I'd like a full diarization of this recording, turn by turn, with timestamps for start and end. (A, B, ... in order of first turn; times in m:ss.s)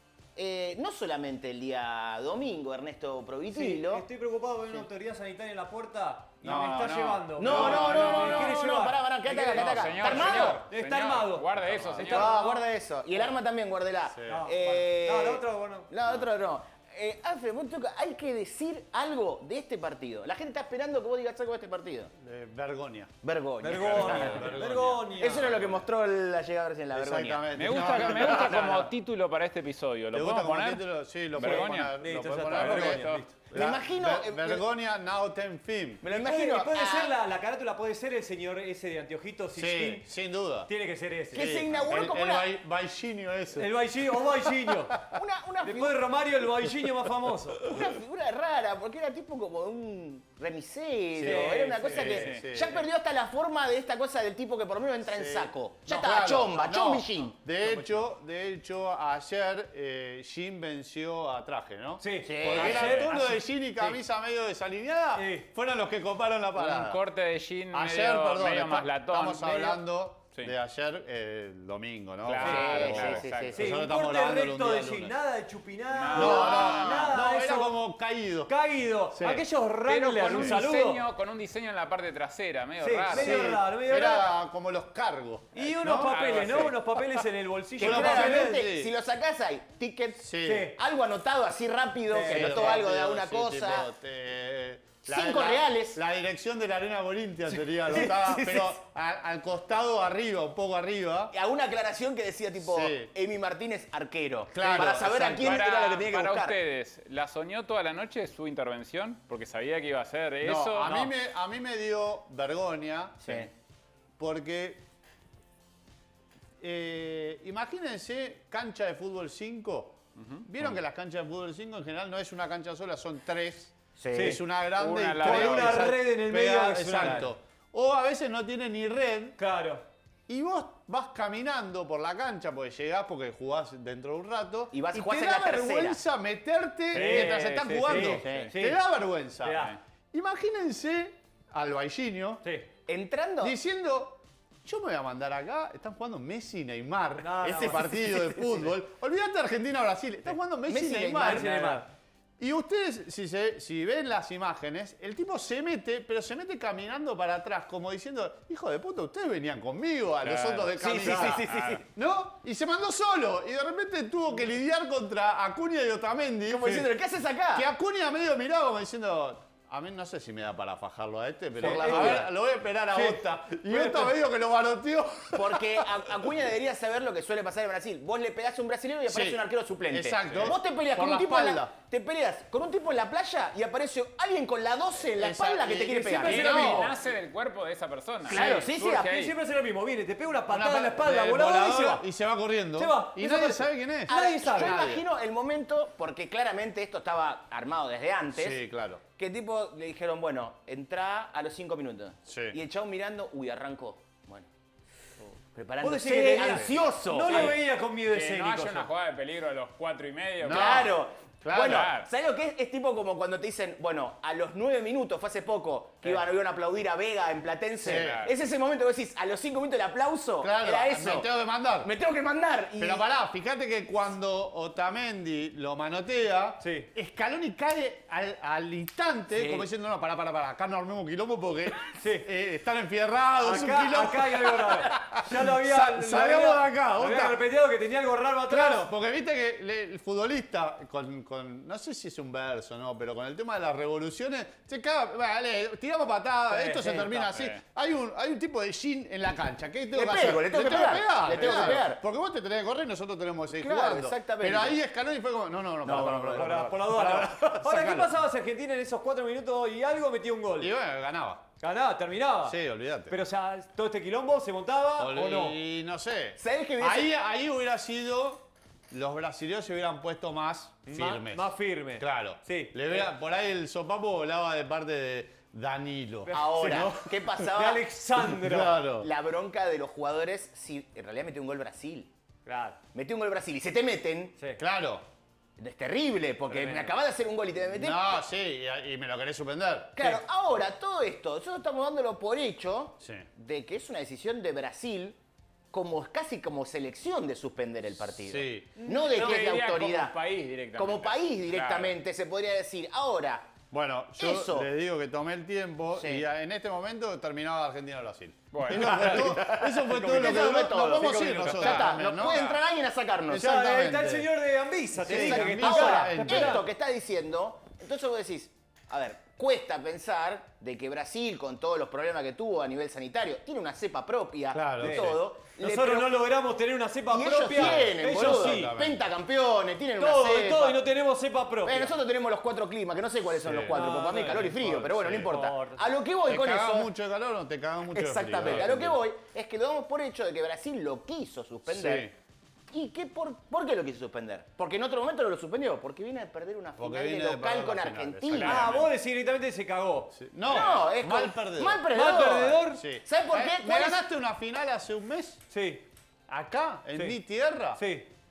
0:00.4-0:04.0 A
0:03.5-0:12.6 B
0:06.4-0:08.5 C
0:06.5-0:08.5 D
0:07.4-0:10.6 A
0:09.5-0:12.4 D
0:11.6-0:12.0 C
0:12.0-0:22.1 A
0:14.1-0:14.5 C
0:14.3-0:15.9 B
0:22.2-0:23.1 C
0:23.2-0:24.6 A
0:23.6-0:25.5 B
0:23.7-0:25.8 C
0:25.1-0:28.6 A
0:26.9-0:28.9 C
0:27.5-0:33.2 D
0:30.1-0:36.0 C
0:31.3-0:33.3 B
0:33.5-0:34.6 A
0:36.0-0:37.1 A
0:36.1-0:40.1 B
0:39.5-0:40.7 C
0:40.7-0:41.6 B
0:41.3-0:42.5 A
0:41.3-0:43.7 C
0:43.6-0:45.0 B
0:45.1-0:46.0 A
0:45.6-0:47.7 B
0:46.8-0:47.1 C
0:47.6-0:57.4 A
0:51.2-0:52.8 C
0:51.2-0:52.4 B
0:52.0-0:52.5 D
0:55.0-1:07.0 C
0:57.6-0:58.0 B
1:02.0-1:04.0 B
1:02.2-1:03.0 A
1:02.6-1:03.1 D
1:05.1-1:05.5 B
1:06.6-1:09.8 D
1:07.7-1:15.2 C
1:12.2-1:13.6 D
1:12.4-1:13.8 A
1:12.4-1:12.7 B
1:13.6-1:17.8 B
1:15.9-1:17.2 D
1:16.1-1:18.5 C
1:18.5-1:21.0 B
1:19.1-1:19.4 C
1:19.8-1:23.6 D
1:20.3-1:20.6 C
1:22.8-1:24.3 B
1:23.1-1:26.6 C
1:25.5-1:28.6 B
1:25.9-1:26.8 D
1:27.8-1:28.9 C
1:27.8-1:33.9 A
1:30.2-1:30.7 C
1:30.4-1:30.8 B
1:32.1-1:32.8 B
1:32.2-1:41.3 C
1:35.0-1:36.0 A
1:37.9-1:38.8 A
1:41.3-1:46.6 A
1:42.6-1:43.1 C
1:44.5-1:45.6 C
1:45.4-1:51.1 D
1:50.4-1:53.5 C
1:53.2-1:53.5 A
1:54.2-1:54.8 C
1:56.6-2:09.4 C
2:00.2-2:00.4 D
2:04.0-2:04.4 A
2:04.1-2:04.4 B
2:04.8-2:06.0 D
2:05.2-2:07.3 B
2:09.4-2:09.8 B
2:10.3-2:22.4 C
2:14.7-2:16.0 A
2:16.9-2:18.5 D
2:16.9-2:18.8 B
2:18.2-2:18.5 A
2:19.4-2:19.8 B
2:22.9-2:23.6 A
2:23.4-2:31.8 C
2:27.2-2:28.1 B
2:30.7-2:31.8 A
2:31.2-2:31.8 B
2:32.4-2:46.9 C
2:40.2-2:40.7 D
2:40.7-2:41.8 A
2:40.9-2:41.4 B
2:41.4-2:41.8 D
2:46.4-2:47.7 A
2:47.5-2:56.3 C
2:51.6-2:52.3 B
2:51.6-2:52.3 A
2:52.9-2:54.1 B
2:55.3-3:06.8 A
2:59.1-3:01.7 C
3:00.2-3:00.5 D
3:05.1-3:06.9 C
3:06.1-3:07.0 B
3:06.2-3:09.3 D
3:08.3-3:08.7 C
3:08.3-3:09.3 A
3:08.4-3:12.0 B
3:10.5-3:15.0 C
3:12.8-3:14.8 B
3:14.1-3:18.6 A
3:18.3-3:19.0 C
3:19.2-3:24.5 A
3:22.2-3:22.6 C
3:25.5-3:27.6 A
3:25.8-3:28.9 B
3:27.3-3:30.9 D
3:30.4-3:31.9 C
3:30.5-3:41.3 A
3:31.6-3:32.1 D
3:37.8-3:38.3 C
3:37.8-3:38.3 D
3:40.4-3:41.9 C
3:41.8-3:43.0 A
3:42.8-3:57.4 C
3:46.6-3:46.9 B
3:49.3-3:49.7 A
3:52.0-3:52.3 B
3:53.4-3:58.9 B
3:58.5-4:18.1 C
4:06.5-4:07.3 B
4:07.2-4:07.6 D
4:09.9-4:12.0 A
4:11.3-4:11.8 B
4:13.5-4:14.8 A
4:15.8-4:16.8 A
4:16.3-4:20.7 B
4:20.6-4:21.4 C
4:21.6-4:25.6 B
4:22.4-4:23.2 C
4:25.0-4:37.2 C
4:26.4-4:27.1 A
4:30.8-4:33.1 B
4:36.2-4:38.8 B
4:36.3-4:37.8 A
4:38.2-4:39.1 C
4:39.0-4:42.1 A
4:42.4-4:42.8 B
4:42.9-4:44.4 A
4:44.6-4:45.0 C
4:45.6-4:48.2 A
4:46.5-4:46.9 B
4:47.7-4:50.0 C
4:50.0-4:55.2 A
4:53.0-4:53.3 C
4:55.7-5:00.1 A
4:58.2-4:58.7 C
4:58.9-5:02.0 D
5:00.8-5:03.5 A
5:03.7-5:12.5 C
5:04.2-5:04.7 A
5:05.9-5:06.2 A
5:08.5-5:09.1 D
5:08.7-5:11.5 B
5:08.9-5:13.5 A
5:11.3-5:12.6 D
5:13.3-5:14.3 C
5:13.3-5:16.6 B
5:15.0-5:16.6 C
5:15.0-5:26.2 A
5:24.5-5:25.2 C
5:24.8-5:28.8 B
5:27.1-5:30.8 A
5:27.5-5:29.0 C
5:30.0-5:32.0 B
5:31.6-5:36.9 A
5:33.4-5:35.3 C
5:33.7-5:35.8 B
5:36.3-5:39.0 C
5:37.9-5:42.1 A
5:41.7-5:42.1 C
5:42.7-5:48.6 A
5:46.8-5:48.7 C
5:48.3-5:48.9 D
5:48.4-5:50.1 B
5:50.1-5:51.8 C
5:50.4-5:54.0 A
5:51.9-5:52.8 B
5:52.7-5:55.4 C
5:55.5-5:55.8 B
5:56.3-5:57.8 C
5:57.7-5:58.1 B